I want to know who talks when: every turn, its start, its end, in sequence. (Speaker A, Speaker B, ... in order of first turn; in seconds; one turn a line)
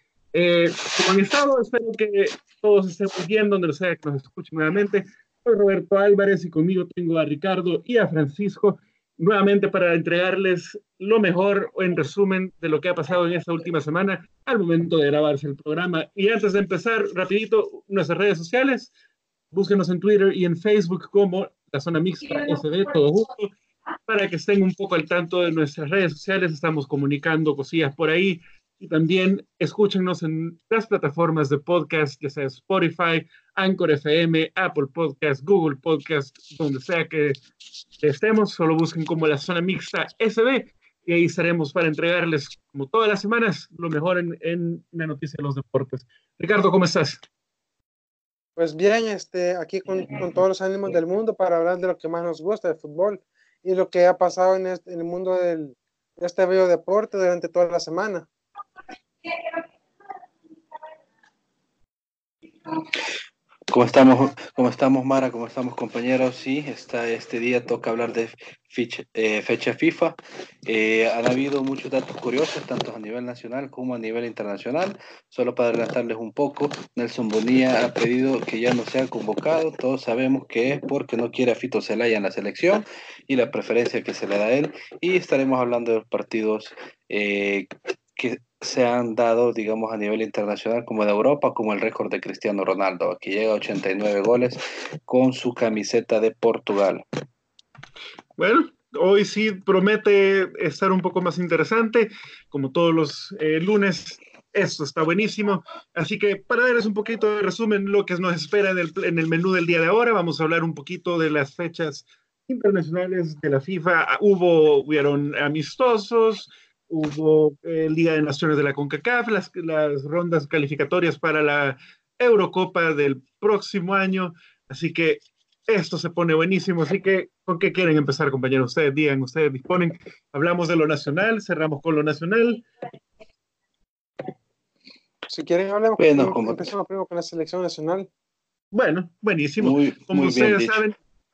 Speaker A: 0.3-18.9
Speaker A: 19.5-23.5
Speaker A: 24.1-37.4
Speaker A: 38.0-47.2
Speaker B: 48.6-58.3
Speaker C: 63.7-97.0
Speaker A: 98.4-132.6
Speaker B: 135.3-138.1
Speaker C: 136.0-136.7
Speaker A: 138.7-140.9
Speaker C: 139.6-140.8